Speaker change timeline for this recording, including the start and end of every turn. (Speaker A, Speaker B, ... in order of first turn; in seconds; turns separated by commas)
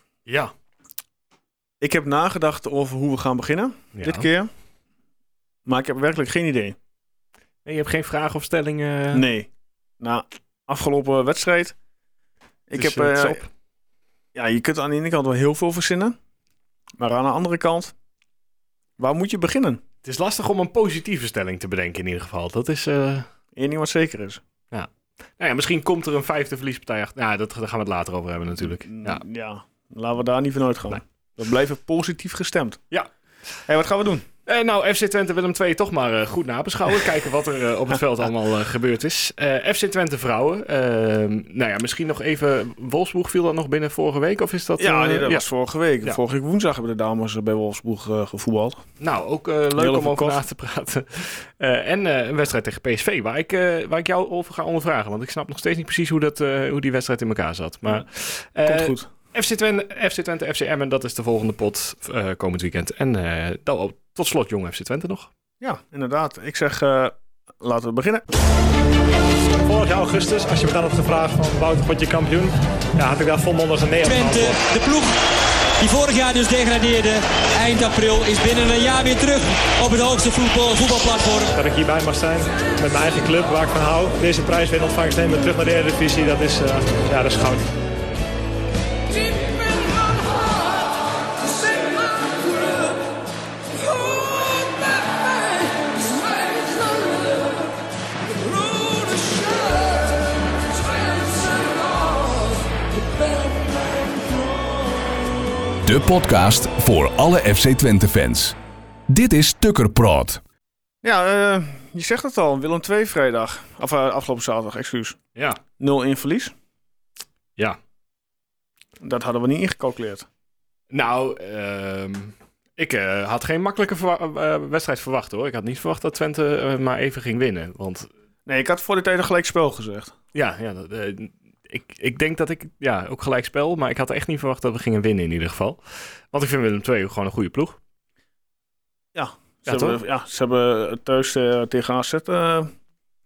Speaker A: 0.2-0.5, Speaker B: 1.8-4.5, Speaker A: 3.9-4.3, Speaker B: 5.6-6.8, Speaker A: 7.6-9.2, Speaker B: 9.1-9.5, Speaker B: 10.0-11.8, Speaker B: 12.7-13.4, Speaker A: 12.7-13.5, Speaker B: 14.3-16.1, Speaker B: 17.0-17.9, Speaker B: 19.0-19.8, Speaker A: 20.0-23.3, Speaker B: 23.6-24.4, Speaker A: 24.7-29.2, Speaker B: 28.8-32.8, Speaker B: 33.6-34.2, Speaker A: 34.5-45.4, Speaker B: 44.8-48.9, Speaker A: 49.0-65.3, Speaker B: 49.8-50.4, Speaker B: 58.6-59.1, Speaker B: 65.6-68.2, Speaker C: 69.6-74.7, Speaker D: 74.0-75.2, Speaker D: 75.8-81.5, Speaker C: 81.4-87.7, Speaker E: 105.8-108.6, Speaker E: 109.1-110.4, Speaker B: 111.0-115.2, Speaker A: 115.3-115.6, Speaker B: 115.8-116.5, Speaker B: 119.0-120.3, Speaker A: 120.9-128.1, Speaker B: 128.4-130.1, Speaker A: 130.3-137.8, Speaker B: 139.1-142.7, Speaker A: 139.7-140.0